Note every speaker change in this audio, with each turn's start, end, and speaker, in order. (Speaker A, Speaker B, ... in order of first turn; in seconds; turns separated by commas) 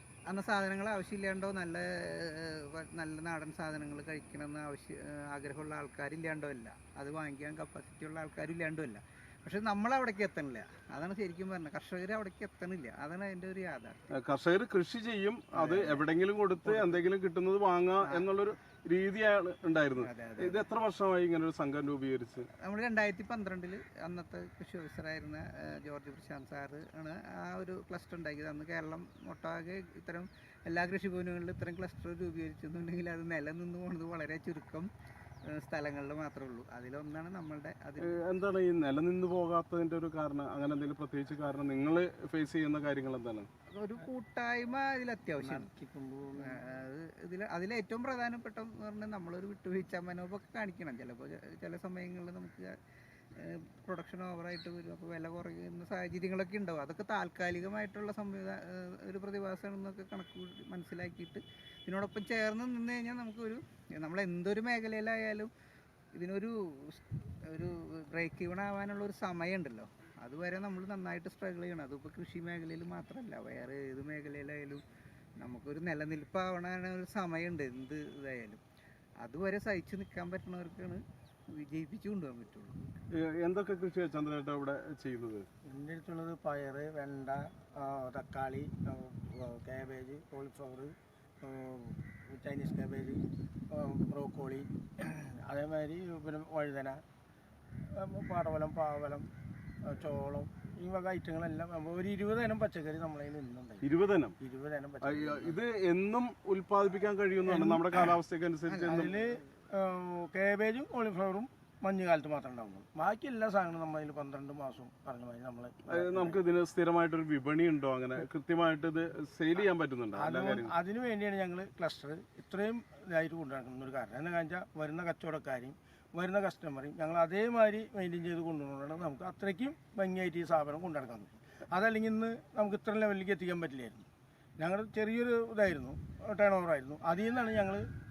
Speaker A: 0.3-14.0, Speaker B: 14.1-22.5, Speaker A: 15.5-16.0, Speaker A: 16.6-17.0, Speaker A: 20.0-20.6, Speaker A: 22.6-34.9, Speaker A: 35.5-38.1, Speaker B: 38.0-43.5, Speaker A: 43.7-45.7, Speaker C: 45.4-46.8, Speaker A: 46.4-52.7, Speaker A: 53.4-65.5, Speaker A: 66.2-74.8, Speaker A: 75.4-78.6, Speaker A: 79.2-82.8, Speaker B: 83.1-85.5, Speaker C: 85.7-97.0, Speaker C: 97.9-99.3, Speaker C: 99.8-103.9, Speaker B: 103.8-104.4, Speaker C: 104.4-105.6, Speaker B: 105.0-109.2, Speaker C: 107.5-108.1, Speaker A: 108.7-109.2, Speaker C: 108.8-116.4, Speaker B: 115.9-120.7, Speaker C: 120.2-134.1, Speaker C: 134.6-137.9